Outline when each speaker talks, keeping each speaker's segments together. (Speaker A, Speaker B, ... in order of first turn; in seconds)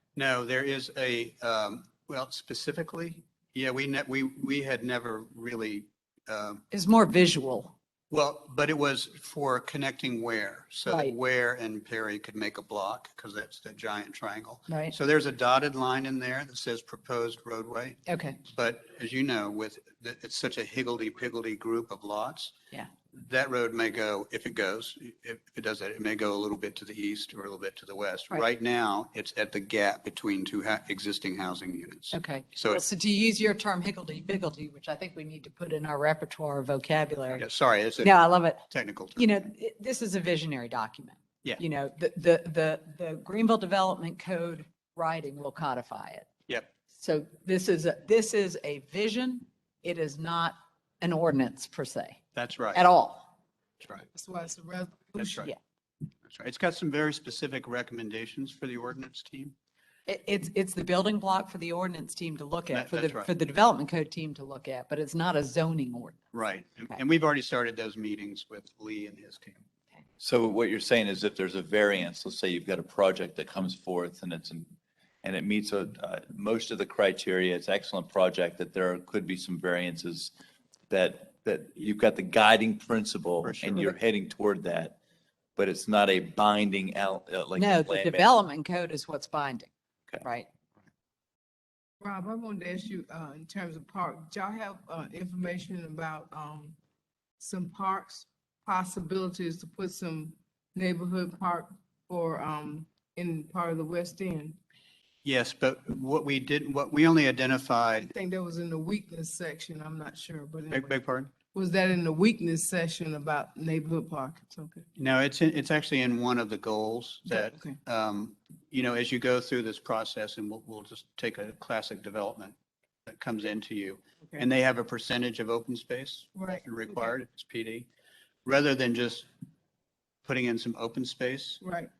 Speaker A: 0.1-6.6, 8.1-22.5, 23.1-32.8, 37.3-38.1, 38.7-39.3, 52.3-52.8, 53.8-54.1, 55.2-55.5, 56.3-59.5, 62.7-63.3, 66.3-69.6, 83.4-83.9, 105.2-108.1, 110.7-111.3, 115.0-122.5, 123.1-127.9, 128.4-129.3, 130.2-131.6
Speaker B: 6.7-7.7, 10.8-11.1, 14.7-14.9, 18.1-18.4, 32.1-37.4, 38.0-38.6, 39.1-46.3, 46.9-52.2, 52.7-53.3, 60.0-66.2, 87.6-89.7, 90.2-90.5
Speaker C: 54.1-55.5, 92.0-96.8, 97.4-104.6, 108.1-111.0, 111.5-114.8, 117.3-117.8, 126.3-127.1, 131.6-131.9
Speaker D: 70.2-74.7, 75.2-80.3, 80.9-85.0, 85.5-88.3